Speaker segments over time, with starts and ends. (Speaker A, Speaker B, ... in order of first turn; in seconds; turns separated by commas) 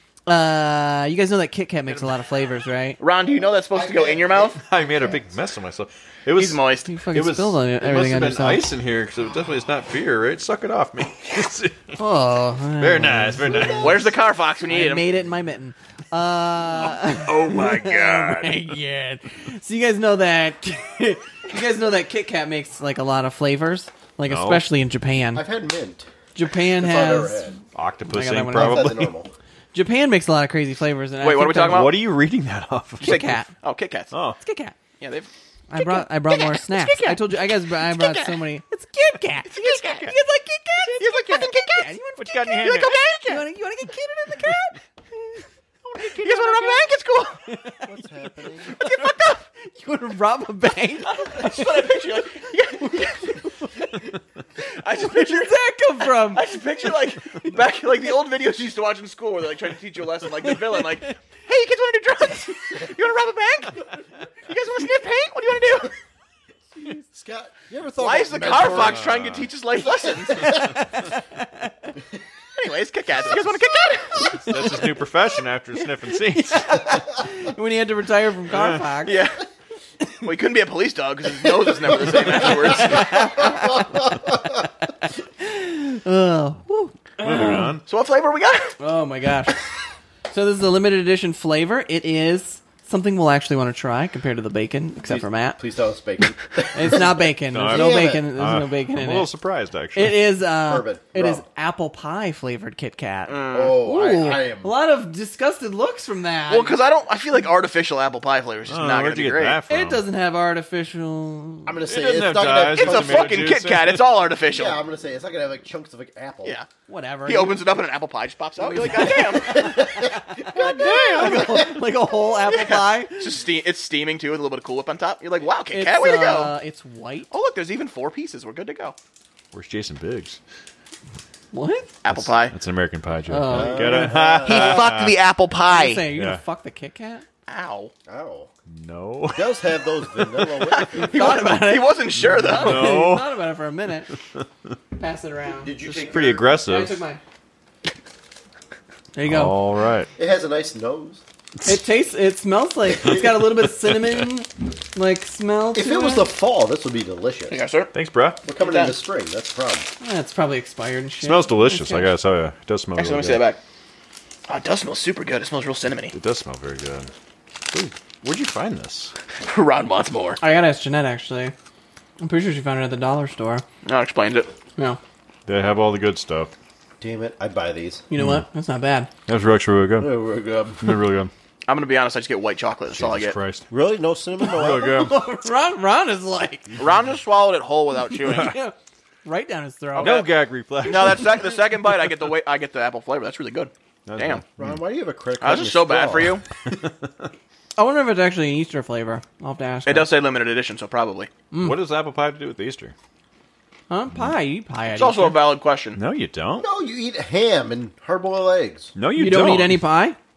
Speaker A: 0.3-3.0, Speaker B: 3.0-4.6, Speaker C: 3.2-4.6, Speaker D: 4.6-12.0, Speaker B: 6.3-6.9, Speaker A: 6.9-8.7, Speaker A: 12.0-14.1, Speaker D: 12.8-14.1, Speaker B: 13.6-15.1, Speaker A: 14.7-25.4, Speaker D: 16.8-18.6, Speaker D: 24.3-24.6, Speaker C: 25.3-26.1, Speaker A: 26.4-27.5, Speaker C: 26.7-27.6, Speaker D: 27.7-29.1, Speaker A: 28.1-29.0, Speaker C: 28.5-29.3, Speaker A: 29.7-32.0, Speaker B: 31.2-32.1, Speaker D: 31.6-33.4, Speaker A: 33.0-33.5, Speaker B: 33.0-34.1, Speaker D: 34.1-34.4, Speaker A: 34.4-34.8, Speaker B: 35.0-35.3, Speaker A: 35.7-46.9, Speaker B: 35.9-37.2, Speaker B: 37.9-38.3, Speaker B: 39.5-40.1, Speaker B: 40.8-42.0, Speaker D: 42.2-42.9, Speaker B: 42.6-43.4, Speaker B: 46.0-47.4, Speaker A: 47.4-48.1, Speaker C: 47.9-48.8, Speaker A: 48.6-52.0, Speaker B: 48.7-49.4, Speaker B: 51.1-53.5, Speaker A: 52.8-54.0, Speaker B: 54.6-63.9, Speaker A: 55.0-56.5, Speaker B: 64.5-65.9, Speaker C: 67.0-69.1, Speaker B: 68.0-70.8, Speaker D: 68.5-69.5, Speaker A: 70.4-71.7, Speaker B: 72.6-74.5, Speaker D: 74.2-76.8, Speaker A: 76.4-79.2, Speaker D: 78.5-78.8, Speaker B: 79.0-79.4, Speaker B: 80.2-83.5, Speaker A: 82.3-87.8, Speaker C: 83.5-84.0, Speaker D: 87.2-87.8, Speaker B: 87.9-88.8, Speaker A: 88.8-89.6, Speaker A: 90.3-95.6, Speaker C: 95.1-97.1, Speaker A: 96.7-99.3, Speaker D: 97.5-100.3, Speaker C: 97.7-98.3, Speaker A: 100.0-106.8, Speaker C: 100.6-101.5, Speaker B: 103.3-103.8, Speaker C: 103.5-104.7, Speaker B: 106.5-109.6, Speaker D: 108.7-110.0, Speaker A: 109.7-111.8, Speaker C: 111.7-113.5, Speaker D: 111.9-114.1, Speaker B: 112.7-114.8, Speaker C: 114.5-116.6, Speaker A: 116.9-117.6, Speaker B: 117.3-119.8, Speaker A: 118.6-123.4, Speaker C: 119.2-120.9, Speaker D: 120.5-121.6, Speaker B: 121.2-121.8, Speaker B: 122.4-126.5, Speaker A: 125.7-127.3, Speaker B: 127.3-129.0, Speaker D: 129.5-130.4, Speaker A: 131.5-131.9, Speaker B: 132.0-132.5, Speaker D: 132.1-135.2, Speaker A: 133.3-134.2, Speaker C: 133.5-134.9, Speaker B: 134.4-136.0, Speaker A: 135.7-137.2, Speaker D: 136.1-136.4, Speaker B: 137.5-137.9, Speaker C: 138.1-138.5, Speaker D: 138.7-140.8, Speaker C: 139.3-141.4, Speaker B: 140.9-143.0, Speaker A: 140.9-144.1, Speaker D: 142.2-143.3, Speaker A: 145.0-145.8, Speaker C: 145.6-146.6, Speaker D: 145.9-147.0, Speaker A: 146.6-147.2, Speaker A: 149.2-149.6, Speaker D: 149.2-150.1, Speaker C: 150.2-151.2, Speaker A: 151.7-156.3, Speaker D: 153.0-153.5, Speaker C: 155.7-157.6, Speaker B: 157.5-157.9, Speaker D: 157.9-158.4, Speaker C: 158.4-159.9, Speaker B: 158.6-159.0, Speaker A: 160.0-162.1, Speaker D: 161.2-163.4, Speaker B: 163.0-163.6, Speaker B: 164.5-166.1, Speaker D: 166.1-167.1, Speaker D: 167.7-169.1, Speaker B: 169.4-170.4, Speaker A: 170.4-171.5, Speaker A: 172.2-173.6, Speaker B: 173.8-174.5, Speaker D: 175.5-176.5, Speaker C: 177.0-178.1, Speaker A: 178.1-179.1, Speaker D: 178.2-178.4, Speaker D: 179.3-180.1, Speaker C: 180.0-180.9, Speaker D: 180.8-181.3, Speaker B: 181.7-183.4, Speaker D: 182.9-183.7, Speaker C: 183.7-185.1, Speaker A: 184.4-186.7, Speaker D: 184.5-185.2, Speaker B: 186.8-188.6, Speaker A: 188.1-190.3, Speaker D: 188.3-188.5, Speaker B: 190.0-194.4, Speaker D: 190.0-191.6, Speaker D: 194.1-194.8, Speaker C: 194.6-196.4, Speaker B: 195.4-196.4, Speaker A: 197.8-200.1, Speaker B: 199.9-201.3, Speaker A: 201.5-201.8, Speaker D: 201.6-202.9, Speaker A: 203.9-205.5, Speaker B: 204.9-206.0, Speaker D: 206.0-206.7, Speaker C: 206.6-208.9, Speaker D: 209.0-209.8, Speaker A: 209.1-210.2